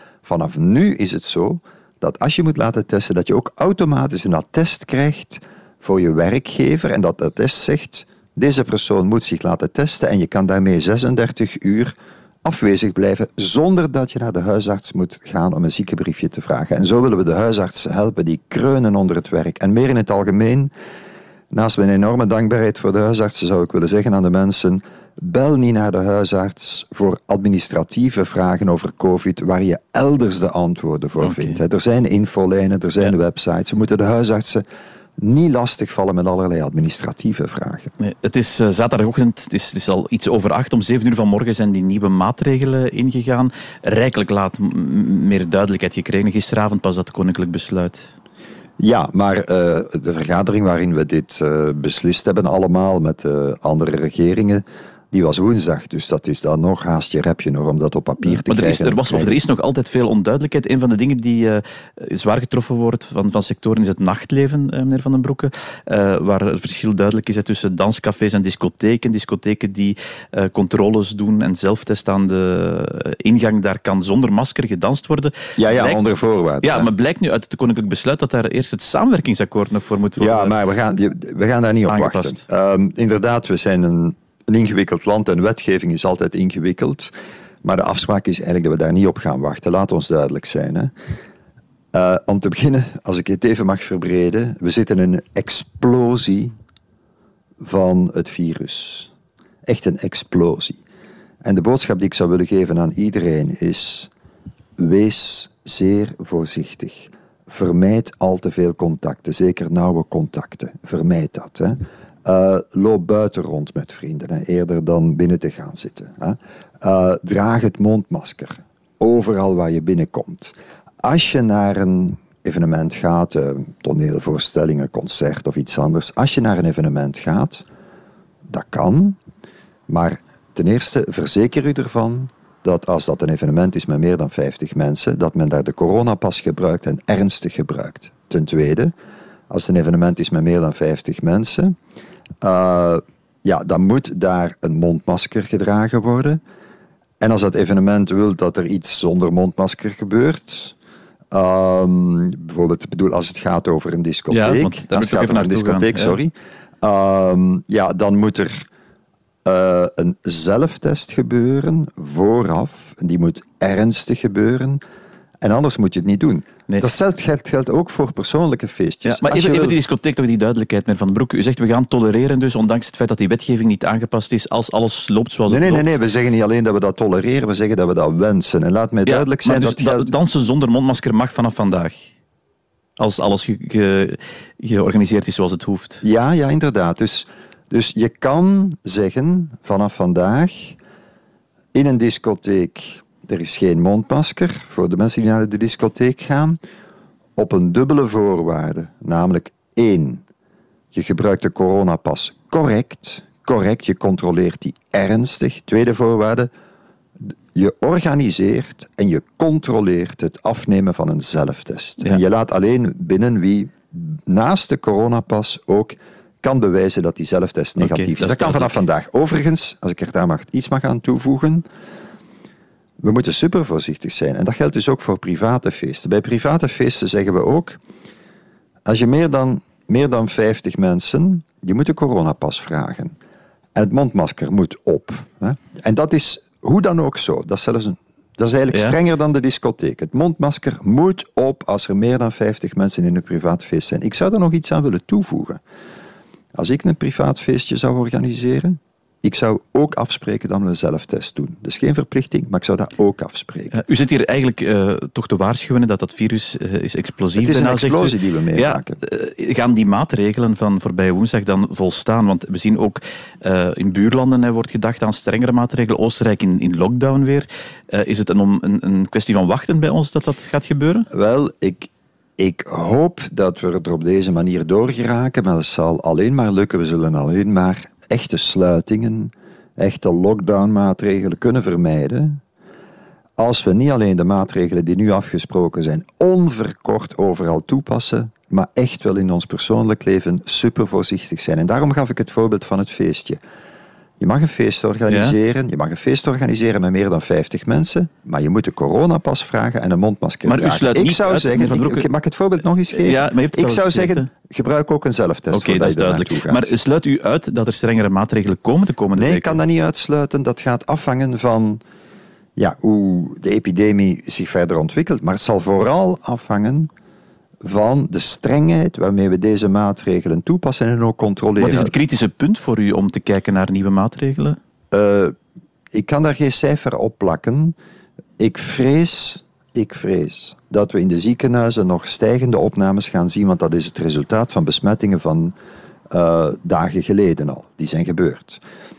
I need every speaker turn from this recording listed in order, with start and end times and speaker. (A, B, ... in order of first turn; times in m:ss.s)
0:00.2-0:20.7 A
0:21.5-0:34.6 A
0:31.2-0:31.6 B
0:35.2-0:37.9 A
0:38.0-0:48.1 B
0:48.8-0:59.4 A
0:58.2-1:16.0 B
1:15.6-1:16.9 A
1:16.6-1:20.6 B
1:20.2-1:27.1 A
1:21.9-1:22.4 B
1:27.6-1:30.9 A
1:31.9-1:36.6 A
1:37.6-1:39.1 A
1:39.6-1:40.8 A
1:41.4-1:44.1 A
1:44.8-2:07.6 A
2:08.5-2:09.2 A
2:09.9-2:18.9 A
2:19.5-2:21.8 A
2:22.4-2:26.4 A
2:27.2-2:30.7 A
2:31.3-2:38.6 A
2:34.3-2:36.2 B
2:39.4-2:44.8 A
2:45.4-2:49.8 A
2:49.0-2:55.9 B
2:55.5-3:00.1 A
2:59.0-3:02.1 B
3:03.0-3:06.0 B
3:06.0-3:10.8 A
3:11.7-3:16.6 A
3:17.4-3:20.2 A
3:20.9-3:26.5 A
3:27.5-3:41.6 A
3:37.8-3:38.8 B
3:43.0-3:47.8 A
3:48.8-3:53.1 A
3:53.8-4:05.6 A
3:58.7-3:59.0 B
4:06.5-4:13.8 A
4:13.7-4:31.1 B
4:17.4-4:19.0 A
4:31.1-4:42.4 A
4:43.4-4:53.4 A
4:54.2-5:06.7 A
4:55.1-4:55.4 B
5:00.4-5:02.1 B
5:02.9-5:04.3 B
5:05.5-5:09.6 B
5:09.2-5:11.8 A
5:12.6-5:16.9 A
5:17.6-5:21.9 A
5:21.6-5:24.6 B
5:24.9-5:25.3 A
5:25.9-5:27.7 A
5:28.4-5:35.5 A
5:36.1-5:38.6 A